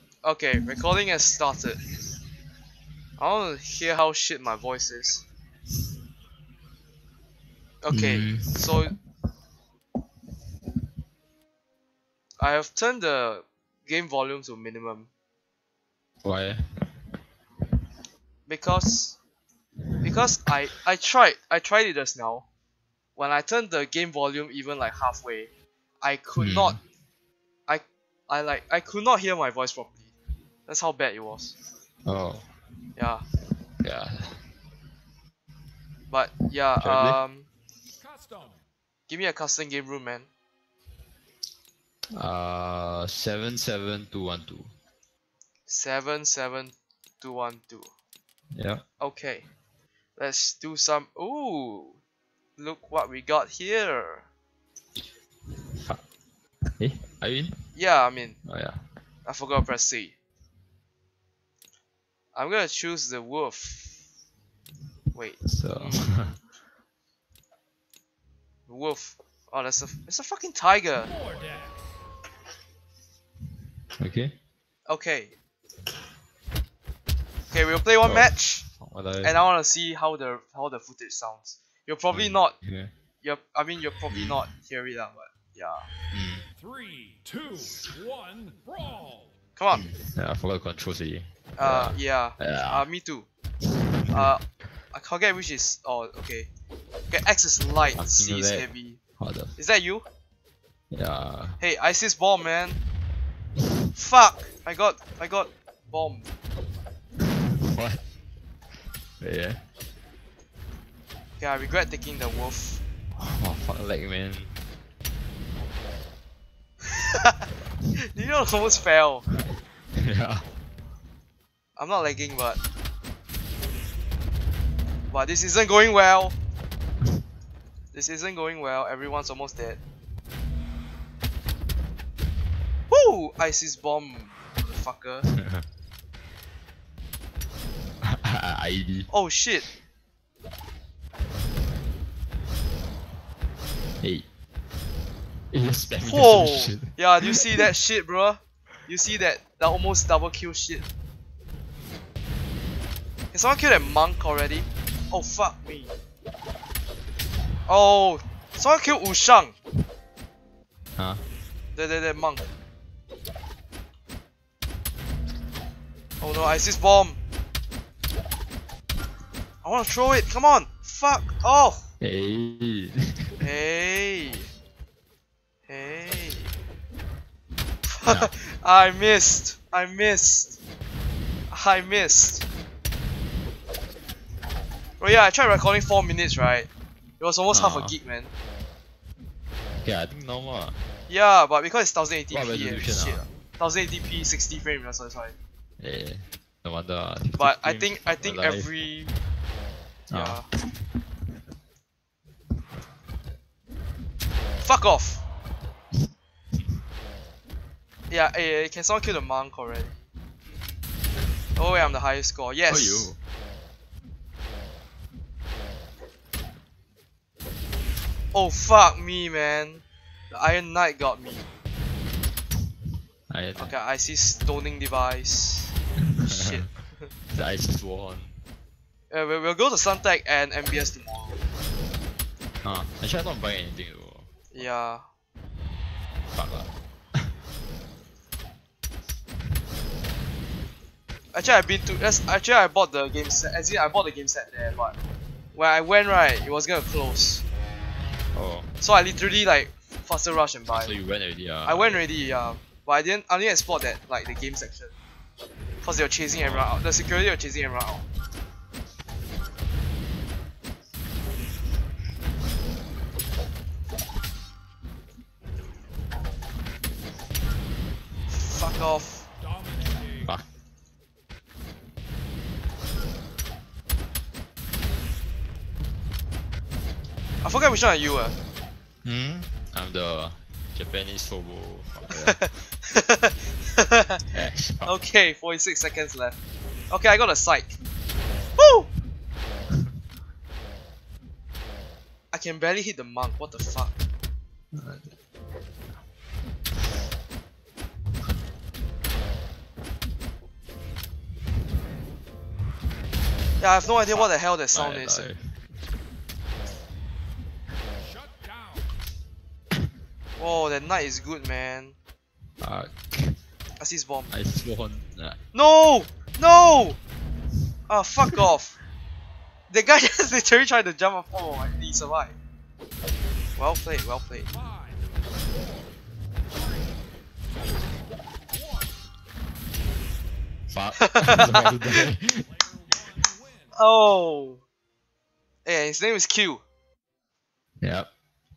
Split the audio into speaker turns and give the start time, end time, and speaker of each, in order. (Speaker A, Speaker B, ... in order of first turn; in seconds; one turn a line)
Speaker A: 0.2-1.8
Speaker A: 3.2-5.2
Speaker A: 7.8-8.9
Speaker B: 7.9-8.7
Speaker A: 12.4-15.1
Speaker B: 16.2-16.6
Speaker A: 18.5-19.2
Speaker A: 20.0-22.4
Speaker A: 23.1-25.5
Speaker A: 26.0-26.8
Speaker B: 26.4-26.8
Speaker A: 27.7-30.1
Speaker A: 30.7-31.5
Speaker B: 32.0-32.5
Speaker A: 33.0-33.2
Speaker B: 33.8-34.4
Speaker A: 36.1-37.5
Speaker B: 36.8-37.2
Speaker A: 39.1-40.3
Speaker B: 42.1-44.7
Speaker A: 45.7-47.9
Speaker B: 48.5-48.8
Speaker A: 49.0-49.5
Speaker A: 50.2-52.0
Speaker A: 52.6-54.2
Speaker B: 56.8-57.6
Speaker A: 57.7-58.4
Speaker B: 58.4-58.8
Speaker A: 59.2-60.1
Speaker A: 62.3-64.0
Speaker A: 65.1-66.4
Speaker B: 65.4-66.3
Speaker A: 68.7-71.1
Speaker B: 74.0-74.3
Speaker A: 74.9-75.3
Speaker A: 77.5-78.6
Speaker B: 78.0-79.4
Speaker A: 79.2-82.5
Speaker B: 82.1-82.9
Speaker A: 83.2-85.8
Speaker B: 84.1-84.4
Speaker B: 86.1-86.5
Speaker C: 86.8-89.2
Speaker A: 89.5-89.8
Speaker B: 89.7-92.9
Speaker A: 91.5-93.3
Speaker B: 93.9-94.3
Speaker A: 94.1-96.5
Speaker A: 97.1-99.0
Speaker B: 97.9-98.7
Speaker B: 99.2-99.6
Speaker A: 99.6-100.1
Speaker B: 100.9-101.6
Speaker A: 101.6-102.8
Speaker A: 103.9-106.3
Speaker B: 107.6-108.0
Speaker B: 109.2-109.6
Speaker A: 111.4-112.8
Speaker B: 113.2-114.5
Speaker A: 116.9-117.4
Speaker A: 118.1-119.2
Speaker B: 120.0-120.5
Speaker A: 121.8-122.6
Speaker A: 125.1-126.3
Speaker A: 127.9-129.8
Speaker A: 132.9-135.3
Speaker B: 138.1-139.1
Speaker A: 139.1-139.7
Speaker B: 144.0-144.3
Speaker B: 145.5-147.6
Speaker A: 146.0-150.9
Speaker A: 153.3-155.9
Speaker A: 157.7-159.5
Speaker B: 161.0-161.2
Speaker A: 161.7-162.5
Speaker A: 166.2-167.2
Speaker A: 169.6-171.8
Speaker B: 172.0-173.4
Speaker A: 173.4-174.5
Speaker A: 175.7-176.5
Speaker A: 177.9-180.6
Speaker A: 181.5-182.4
Speaker A: 185.0-186.7
Speaker A: 187.2-188.3
Speaker B: 187.5-187.9
Speaker B: 189.8-190.9
Speaker A: 191.1-195.3
Speaker B: 192.3-193.2
Speaker B: 195.8-198.7
Speaker A: 197.4-199.1
Speaker B: 200.1-200.4
Speaker A: 200.1-200.5
Speaker A: 204.6-205.2
Speaker A: 208.1-210.0
Speaker A: 211.6-213.1
Speaker B: 212.7-213.2
Speaker A: 218.3-221.4
Speaker B: 223.3-223.7
Speaker A: 223.6-227.1
Speaker B: 226.2-226.5
Speaker B: 227.3-228.4
Speaker A: 229.1-231.4
Speaker B: 232.6-234.4
Speaker A: 234.5-235.0
Speaker B: 236.3-237.2
Speaker A: 241.3-244.9
Speaker A: 245.5-247.4
Speaker B: 248.3-248.7
Speaker A: 248.8-250.9
Speaker B: 250.7-252.0
Speaker A: 251.6-254.9
Speaker A: 255.8-258.0
Speaker B: 256.4-256.7
Speaker A: 268.3-269.3
Speaker B: 270.2-270.4
Speaker A: 277.4-278.3
Speaker B: 279.0-282.4
Speaker A: 282.1-284.2
Speaker B: 284.3-284.9
Speaker A: 284.8-286.4
Speaker A: 286.9-287.8
Speaker A: 288.6-288.9
Speaker A: 292.3-293.9
Speaker B: 294.7-295.1
Speaker A: 303.6-305.3
Speaker B: 304.1-305.6
Speaker A: 310.4-311.9
Speaker B: 312.6-313.4
Speaker A: 313.8-314.3
Speaker B: 314.3-315.4
Speaker A: 315.5-317.0
Speaker A: 317.9-318.8
Speaker A: 319.7-322.3
Speaker A: 323.6-324.5
Speaker B: 330.7-332.5
Speaker A: 331.0-332.0
Speaker C: 332.9-333.4
Speaker A: 333.7-334.6
Speaker A: 335.6-336.6
Speaker B: 337.8-338.1